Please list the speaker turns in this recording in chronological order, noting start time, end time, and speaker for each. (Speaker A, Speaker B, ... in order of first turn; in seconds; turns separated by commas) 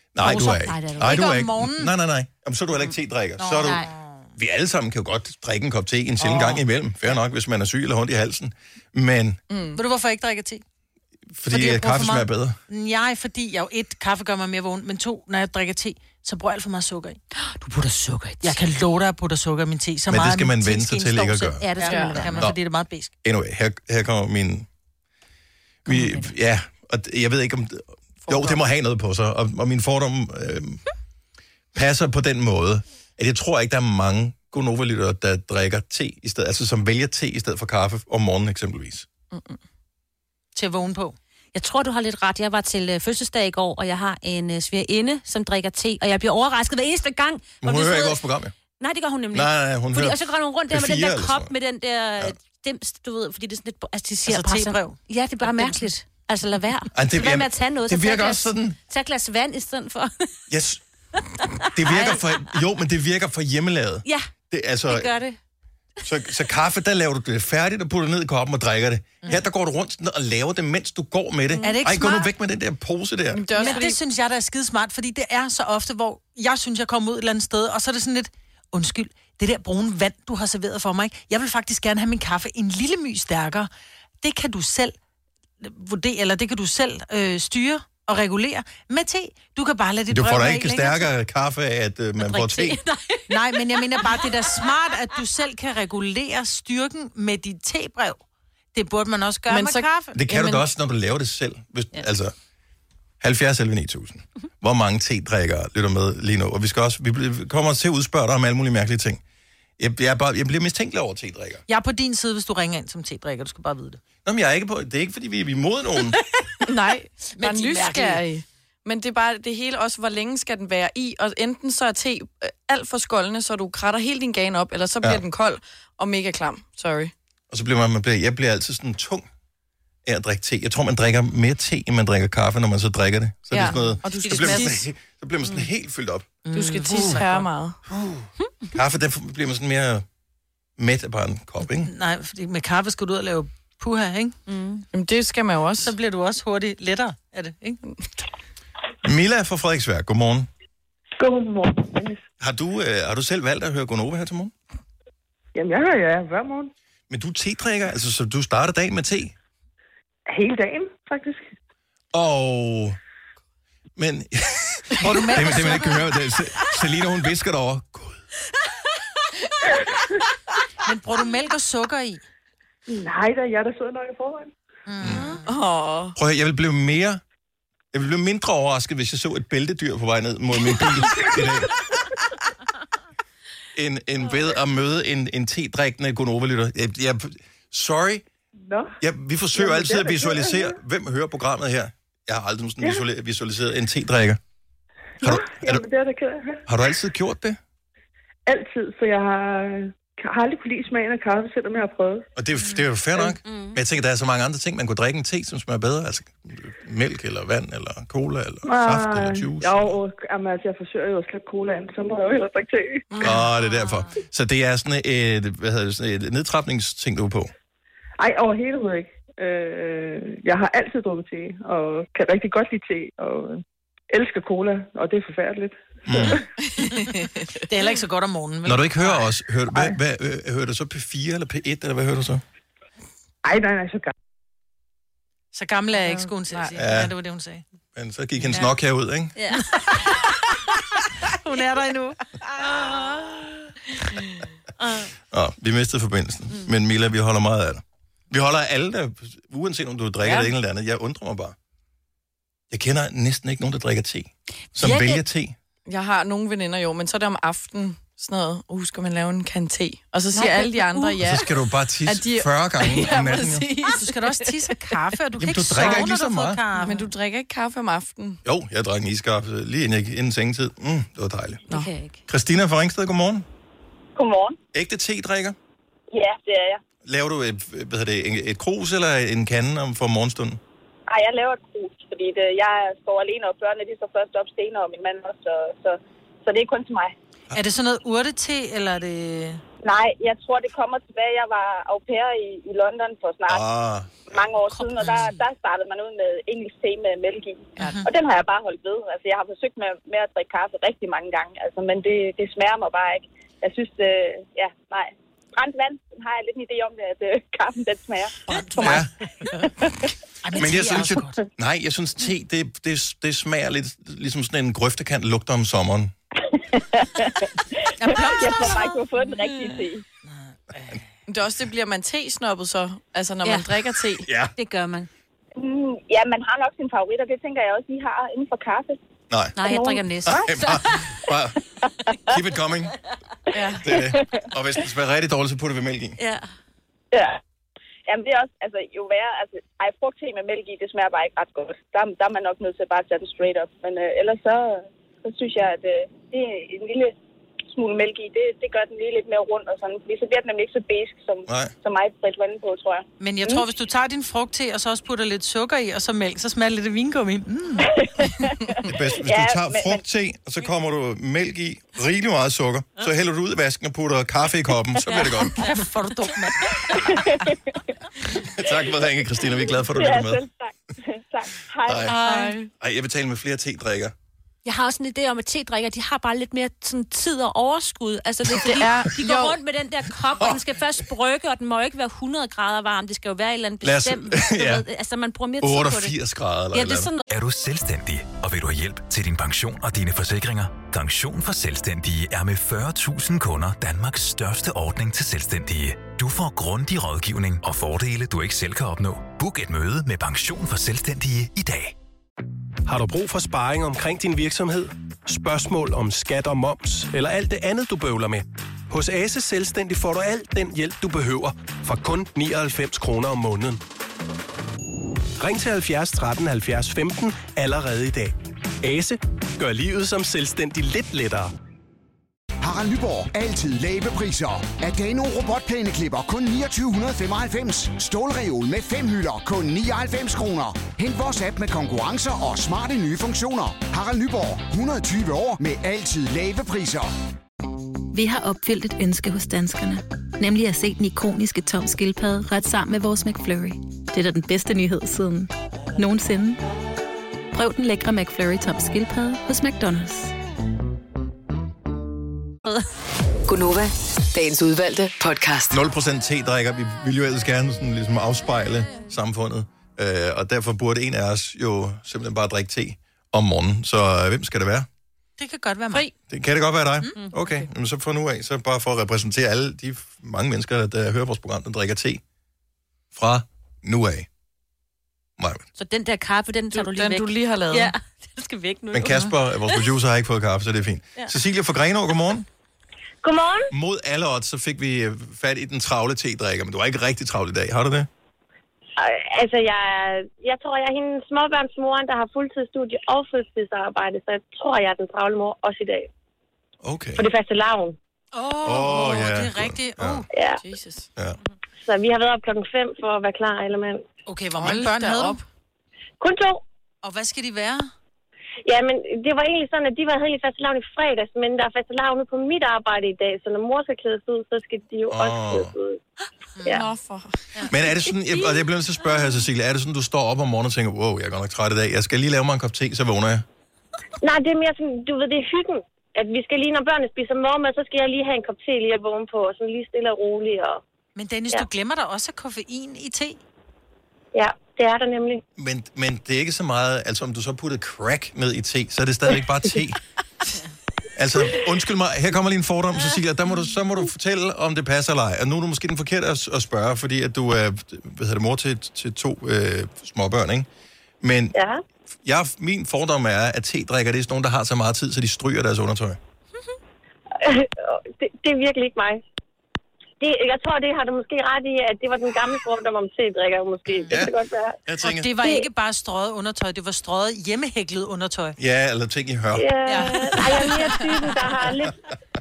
Speaker A: 0.1-3.9, Speaker B: 0.2-1.4, Speaker C: 1.0-1.9, Speaker C: 3.4-4.1, Speaker B: 3.6-3.9, Speaker A: 4.4-9.4, Speaker C: 6.2-6.6, Speaker D: 9.5-9.8, Speaker C: 9.8-10.6, Speaker A: 11.3-12.6, Speaker C: 11.5-17.2, Speaker B: 17.4-18.6, Speaker C: 18.4-23.1, Speaker A: 20.1-21.7, Speaker B: 21.6-22.5, Speaker D: 21.8-22.2, Speaker A: 22.2-22.6, Speaker A: 23.2-24.7, Speaker A: 25.9-30.8, Speaker B: 25.9-26.3, Speaker D: 28.3-28.6, Speaker A: 31.8-39.1, Speaker D: 39.3-39.6, Speaker C: 40.5-41.2, Speaker B: 41.5-48.2, Speaker A: 47.6-48.5, Speaker B: 48.8-60.3, Speaker A: 49.3-51.5, Speaker C: 54.2-55.9, Speaker A: 56.9-58.8, Speaker A: 60.5-60.8, Speaker A: 61.7-65.1, Speaker B: 61.8-62.3, Speaker B: 64.9-65.4, Speaker A: 66.0-73.5, Speaker C: 71.6-72.3, Speaker D: 73.3-74.0, Speaker C: 73.6-83.7, Speaker C: 84.2-85.0, Speaker C: 85.6-91.1, Speaker A: 90.1-92.8, Speaker B: 92.2-94.9, Speaker C: 93.3-98.2, Speaker C: 98.7-100.2, Speaker D: 99.5-100.7, Speaker A: 100.2-102.3, Speaker A: 103.2-109.2, Speaker A: 109.8-111.6, Speaker C: 111.7-114.0, Speaker A: 114.2-116.2, Speaker D: 116.7-127.1, Speaker C: 117.4-118.2, Speaker A: 127.5-129.3, Speaker A: 130.1-136.3, Speaker D: 133.5-134.8, Speaker C: 136.4-137.5, Speaker D: 136.5-137.8, Speaker A: 137.9-140.1, Speaker A: 140.8-141.9, Speaker C: 141.8-144.4, Speaker B: 144.5-144.8, Speaker D: 144.9-145.9, Speaker C: 145.8-147.8, Speaker A: 149.0-150.5, Speaker E: 151.2-152.2, Speaker A: 152.4-154.5, Speaker E: 155.6-156.7, Speaker A: 157.1-159.3, Speaker E: 160.3-161.5, Speaker A: 162.1-163.0, Speaker A: 164.0-168.2, Speaker C: 165.0-166.0, Speaker C: 170.8-172.2, Speaker E: 172.9-174.5, Speaker C: 174.9-175.4, Speaker A: 175.0-175.3, Speaker D: 175.4-176.2, Speaker A: 176.2-177.2, Speaker A: 177.9-181.7, Speaker A: 183.8-188.2, Speaker E: 188.7-189.0, Speaker A: 189.0-194.4, Speaker E: 189.5-190.8, Speaker E: 195.2-196.6, Speaker A: 195.2-195.8, Speaker A: 196.7-197.6, Speaker E: 198.5-202.3, Speaker A: 202.4-210.0, Speaker B: 203.4-203.8, Speaker E: 208.7-213.2, Speaker D: 213.1-213.4, Speaker A: 213.2-217.5, Speaker B: 213.6-214.1, Speaker E: 218.2-226.4, Speaker A: 226.1-226.4, Speaker D: 226.6-227.7, Speaker C: 227.7-229.3, Speaker A: 228.6-232.4, Speaker E: 233.4-234.1, Speaker C: 235.5-237.6, Speaker D: 236.1-236.7, Speaker A: 236.8-237.1, Speaker A: 237.9-239.4, Speaker B: 239.4-239.6, Speaker C: 241.2-242.2, Speaker B: 244.8-245.1, Speaker A: 245.3-251.6, Speaker D: 250.2-250.5, Speaker A: 252.7-255.6, Speaker B: 254.8-255.2, Speaker D: 255.9-261.5, Speaker A: 261.2-263.7, Speaker D: 262.1-264.9, Speaker C: 263.9-267.1, Speaker A: 265.4-266.6, Speaker D: 266.8-268.4, Speaker A: 268.4-271.6, Speaker B: 271.7-272.2, Speaker A: 272.3-273.5, Speaker F: 274.2-274.6, Speaker A: 274.7-275.6, Speaker F: 276.1-276.8, Speaker A: 277.0-280.6, Speaker F: 281.1-287.1, Speaker C: 287.5-289.6, Speaker F: 289.8-293.6, Speaker A: 293.5-294.4, Speaker F: 294.3-310.1, Speaker C: 294.7-295.4, Speaker C: 297.8-298.1, Speaker C: 308.5-309.7, Speaker A: 308.8-309.1, Speaker C: 310.4-311.4, Speaker A: 310.5-316.1, Speaker F: 316.5-320.0, Speaker C: 318.1-318.8, Speaker C: 320.7-321.0, Speaker D: 321.3-324.3, Speaker B: 323.4-323.7, Speaker A: 324.2-324.5, Speaker B: 324.6-325.1, Speaker F: 325.6-329.0, Speaker A: 329.3-329.6, Speaker B: 329.6-330.9, Speaker F: 329.7-330.0, Speaker A: 330.2-331.6, Speaker A: 332.3-332.9, Speaker D: 333.5-333.9, Speaker F: 333.6-334.4, Speaker A: 333.8-336.2, Speaker B: 336.2-336.5, Speaker F: 337.1-337.4, Speaker F: 338.1-347.1, Speaker F: 347.7-353.6, Speaker A: 351.5-351.7, Speaker C: 353.2-357.9, Speaker F: 357.8-360.0, Speaker A: 358.9-365.6, Speaker C: 365.6-366.7, Speaker F: 366.9-367.8, Speaker A: 368.4-370.4, Speaker F: 369.9-372.1, Speaker A: 371.9-372.2, Speaker D: 372.1-372.7, Speaker A: 372.8-374.1, Speaker B: 374.6-386.1, Speaker D: 378.6-379.6, Speaker A: 383.8-384.9, Speaker A: 385.6-387.1, Speaker B: 386.7-387.2, Speaker G: 387.3-401.9, Speaker H: 402.9-413.8, Speaker H: 415.4-418.3, Speaker H: 418.8-421.5, Speaker I: 422.6-437.1, Speaker J: 438.1-446.6, Speaker J: 447.5-450.3, Speaker K: 453.5-455.8, Speaker A: 455.7-464.9, Speaker C: 465.4-466.1, Speaker A: 466.3-472.2, Speaker A: 473.1-474.3, Speaker A: 475.4-475.6, Speaker B: 475.8-479.8, Speaker D: 476.7-477.9, Speaker A: 478.9-482.5, Speaker L: 483.2-483.7, Speaker A: 483.7-488.1, Speaker L: 489.0-496.1, Speaker A: 496.8-497.3, Speaker L: 497.2-498.0, Speaker C: 498.3-500.3, Speaker A: 498.6-500.2, Speaker L: 500.3-500.6, Speaker D: 500.6-501.1, Speaker L: 501.8-504.0, Speaker C: 504.3-505.4, Speaker D: 504.6-505.4, Speaker L: 506.2-506.6, Speaker C: 507.0-507.9, Speaker L: 508.7-516.0, Speaker A: 515.1-515.8, Speaker D: 516.7-517.4, Speaker A: 517.7-523.4, Speaker L: 524.2-530.8, Speaker C: 531.2-533.4, Speaker L: 534.3-535.4, Speaker A: 535.6-540.0, Speaker A: 541.2-550.7, Speaker A: 551.2-551.5, Speaker L: 551.5-551.8, Speaker A: 552.2-556.2, Speaker L: 557.4-559.2, Speaker L: 560.2-564.8, Speaker A: 564.9-565.3, Speaker C: 565.0-568.6, Speaker L: 565.4-565.7, Speaker A: 568.6-569.7, Speaker L: 569.5-571.9